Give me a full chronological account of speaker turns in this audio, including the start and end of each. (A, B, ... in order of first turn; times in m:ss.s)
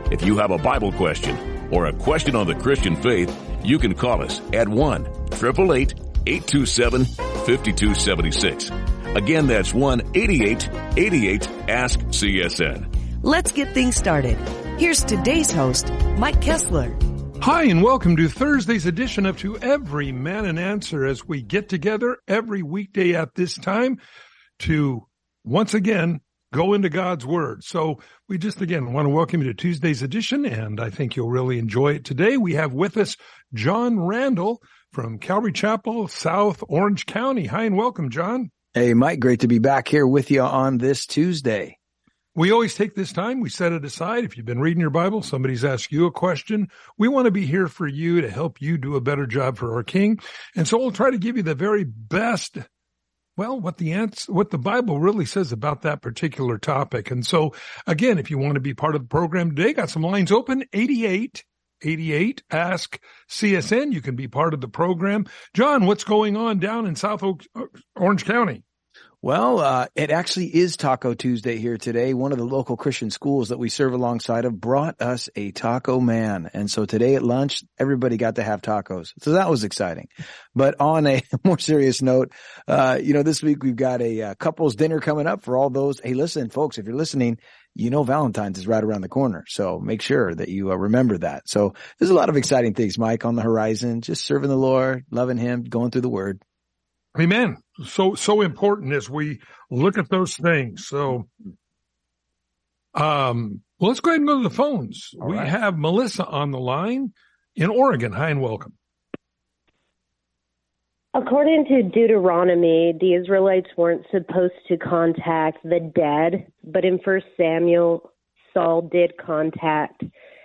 0:00.1-0:12.9 A
0:13.2-0:17.0 B
0:17.4-0:24.0 C
0:24.6-0:38.5 C
0:38.7-0:41.8 D
0:42.3-0:52.6 C
0:53.4-1:08.6 C
1:09.2-1:36.4 D
1:37.1-1:41.3 C
1:42.9-1:48.7 C
1:51.1-2:00.1 E